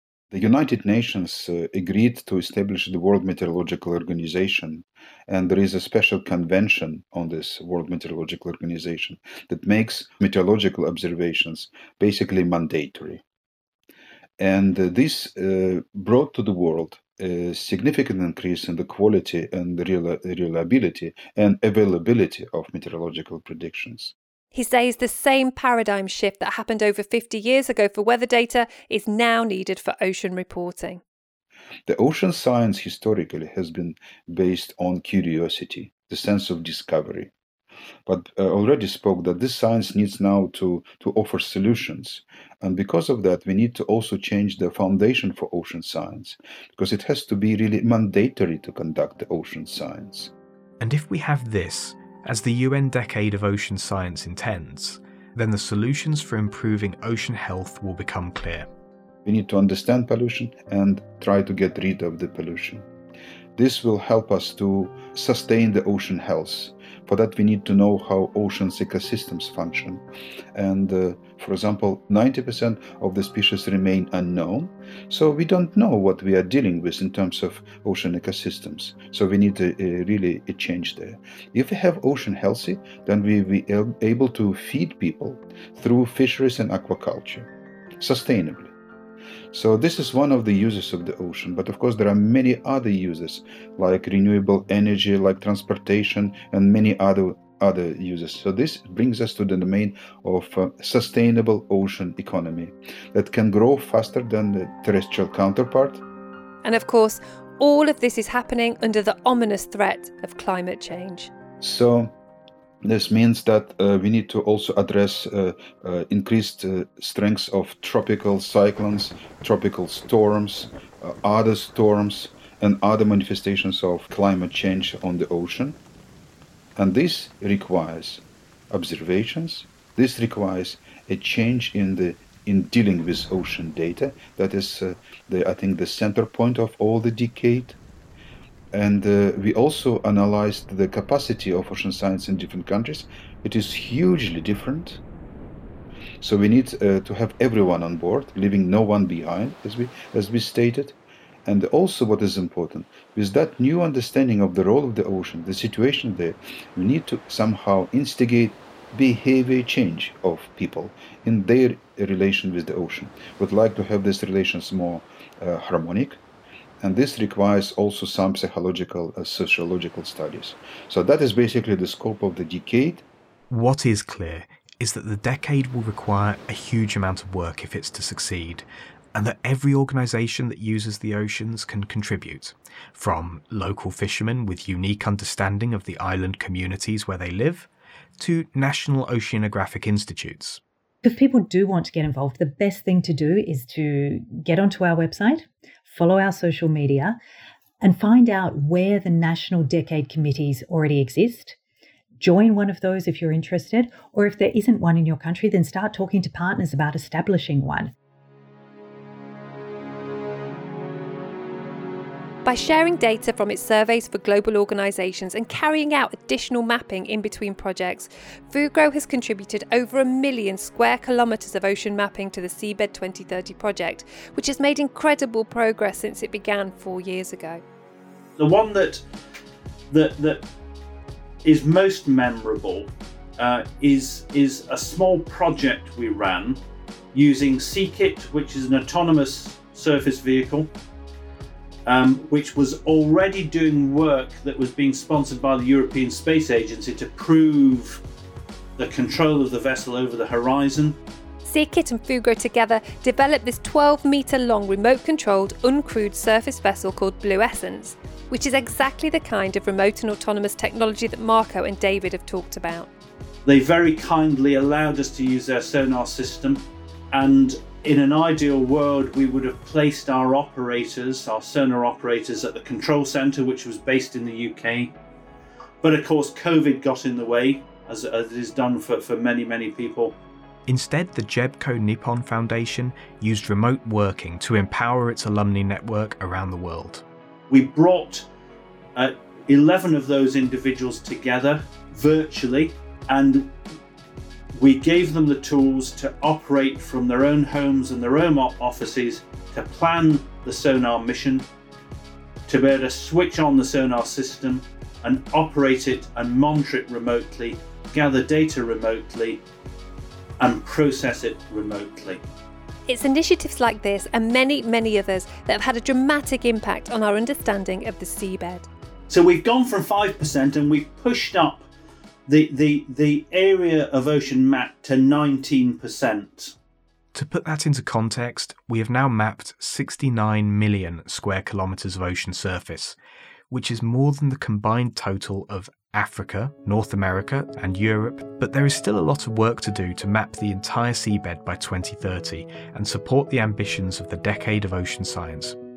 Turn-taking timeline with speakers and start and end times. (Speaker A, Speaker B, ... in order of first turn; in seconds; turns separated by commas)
Speaker A: 0.3-13.2, Speaker A: 14.4-24.1, Speaker B: 24.5-31.0, Speaker A: 31.9-37.3, Speaker A: 38.0-50.3, Speaker C: 50.8-58.7, Speaker A: 59.2-62.9, Speaker A: 63.5-70.0, Speaker A: 70.5-87.5, Speaker A: 88.0-88.7, Speaker A: 89.5-106.0, Speaker B: 106.6-111.3, Speaker A: 111.6-112.1, Speaker A: 112.8-125.8, Speaker A: 126.8-137.8, Speaker A: 138.7-145.0, Speaker A: 146.2-150.9, Speaker A: 151.4-166.2, Speaker A: 166.8-173.0, Speaker C: 173.5-190.6, Speaker D: 191.0-197.2, Speaker D: 197.8-201.6, Speaker D: 202.2-207.9, Speaker B: 212.4-227.6, Speaker E: 228.4-229.0, Speaker E: 229.9-230.4, Speaker E: 231.4-236.6, Speaker E: 237.1-240.7, Speaker E: 241.8-248.0, Speaker E: 248.8-251.0, Speaker B: 251.4-262.9, Speaker E: 263.4-274.9, Speaker E: 275.8-280.1, Speaker C: 280.7-287.0, Speaker E: 287.5-288.3, Speaker E: 288.9-293.5, Speaker E: 294.5-301.4, Speaker E: 302.5-309.4, Speaker E: 310.4-312.2, Speaker B: 312.9-318.7, Speaker E: 319.1-321.7, Speaker E: 322.3-326.5, Speaker C: 327.1-333.0, Speaker C: 333.5-345.6